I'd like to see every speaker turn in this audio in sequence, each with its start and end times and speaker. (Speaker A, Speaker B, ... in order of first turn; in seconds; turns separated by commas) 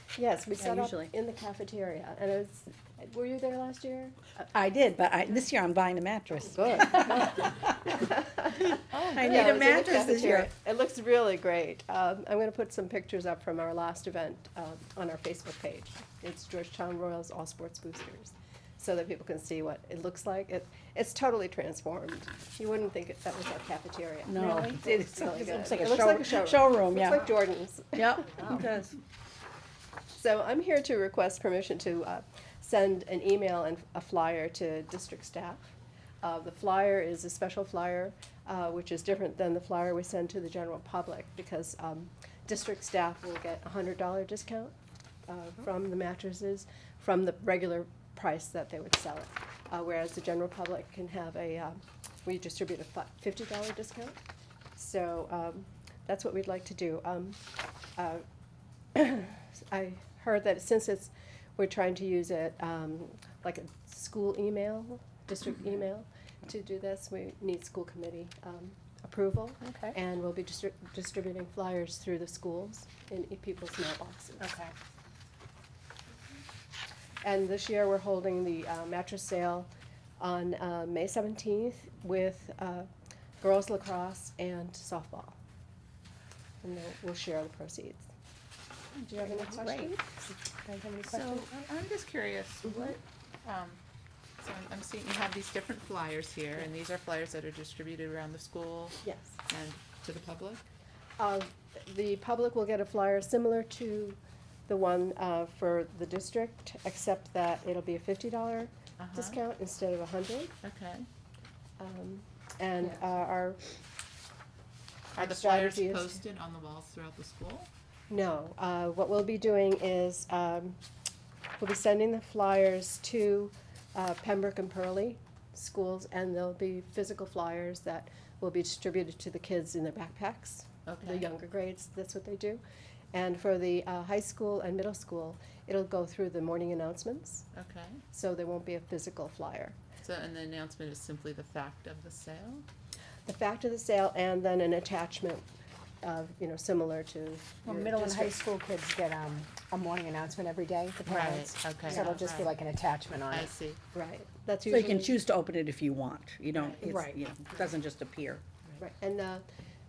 Speaker A: 0.2-4.5, Speaker B: 0.6-1.1, Speaker B: 4.5-7.3, Speaker A: 6.5-28.6, Speaker C: 8.9-9.6, Speaker B: 9.1-10.5, Speaker B: 24.3-27.4, Speaker C: 24.4-24.7, Speaker B: 28.0-29.0, Speaker A: 30.1-35.7, Speaker A: 36.2-44.7, Speaker A: 45.3-54.2, Speaker A: 54.8-57.4, Speaker A: 58.0-58.2, Speaker A: 59.0-74.5, Speaker C: 69.6-70.0, Speaker C: 74.4-74.7, Speaker A: 77.2-82.9, Speaker A: 83.4-85.4, Speaker A: 86.6-88.1, Speaker A: 89.0-90.1, Speaker C: 89.2-91.6, Speaker D: 91.1-93.8, Speaker D: 94.4-100.7, Speaker A: 99.0-99.4, Speaker A: 101.2-110.5, Speaker D: 109.0-109.4, Speaker D: 110.6-111.1, Speaker A: 111.8-113.6, Speaker A: 115.2-116.2, Speaker D: 115.2-117.7, Speaker A: 118.1-120.8, Speaker A: 121.6-132.6, Speaker D: 130.9-131.2, Speaker A: 133.1-137.5, Speaker D: 137.5-138.0, Speaker A: 138.1-139.8, Speaker D: 140.0-142.7, Speaker A: 143.3-145.5, Speaker A: 146.0-148.4, Speaker C: 147.7-153.5, Speaker D: 151.0-152.5, Speaker A: 151.9-152.2, Speaker D: 153.3-153.8, Speaker A: 153.9-155.2, Speaker B: 154.7-158.4, Speaker A: 156.6-156.9, Speaker C: 156.8-157.1, Speaker A: 158.8-159.4